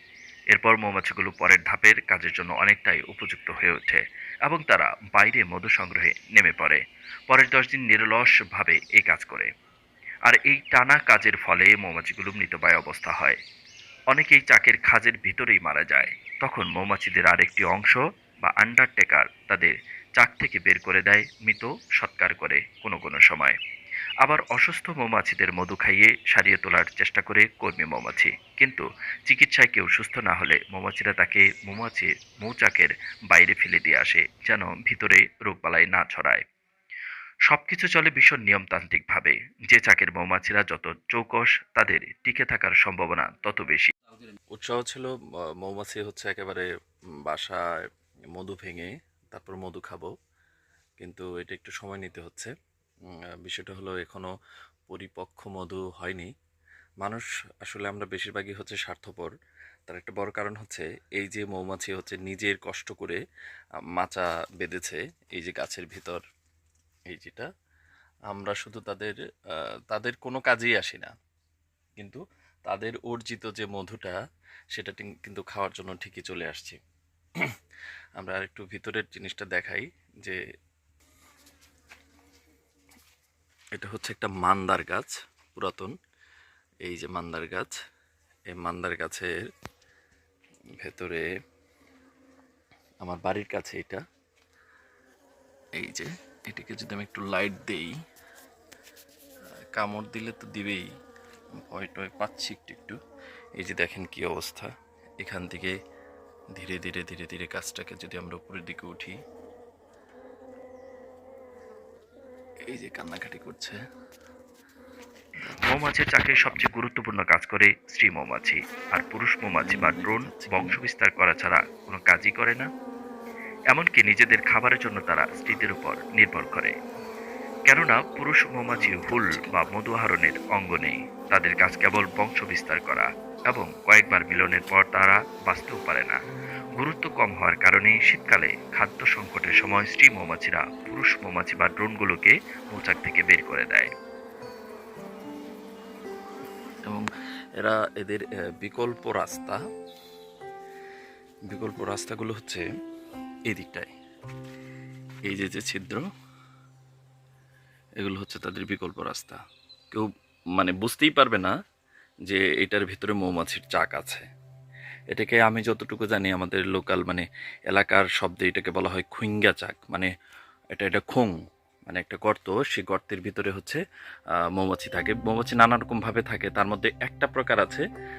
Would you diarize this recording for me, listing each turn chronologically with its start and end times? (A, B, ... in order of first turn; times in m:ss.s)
0:00.5-0:06.8 A
0:07.3-0:09.5 A
0:10.3-0:13.4 A
0:14.1-0:23.6 A
0:24.2-0:36.4 A
0:37.5-0:43.9 A
0:44.5-0:45.1 B
0:45.6-0:46.7 B
0:47.3-0:47.6 B
0:48.4-0:50.1 B
0:51.0-0:52.5 B
0:53.4-0:54.3 B
0:54.9-0:56.3 B
0:57.0-0:59.3 B
0:59.9-1:03.2 B
1:04.0-1:06.2 B
1:07.1-1:07.5 B
1:08.3-1:09.2 B
1:09.9-1:11.1 B
1:12.0-1:14.2 B
1:14.8-1:16.8 B
1:18.2-1:20.4 B
1:23.7-1:25.9 B
1:26.8-1:27.7 B
1:28.5-1:29.3 B
1:30.8-1:31.2 B
1:33.0-1:34.0 B
1:35.8-1:37.9 B
1:39.8-1:40.8 B
1:41.6-1:43.0 B
1:43.6-1:45.7 B
1:46.6-1:49.1 B
1:52.7-1:53.8 B
1:55.4-1:56.7 B
1:55.7-2:02.7 A
1:59.6-2:00.8 B
2:03.7-2:06.7 A
2:07.7-2:16.2 A
2:08.7-2:09.6 B
2:16.8-2:23.9 A
2:27.6-2:29.6 B
2:31.5-2:32.6 B
2:33.5-2:33.9 B
2:35.3-2:36.0 B
2:38.0-2:39.4 B
2:40.6-2:41.5 B
2:42.3-2:44.3 B
2:45.1-2:50.1 B
2:50.8-2:51.3 B
2:51.9-2:53.8 B
2:54.6-2:57.8 B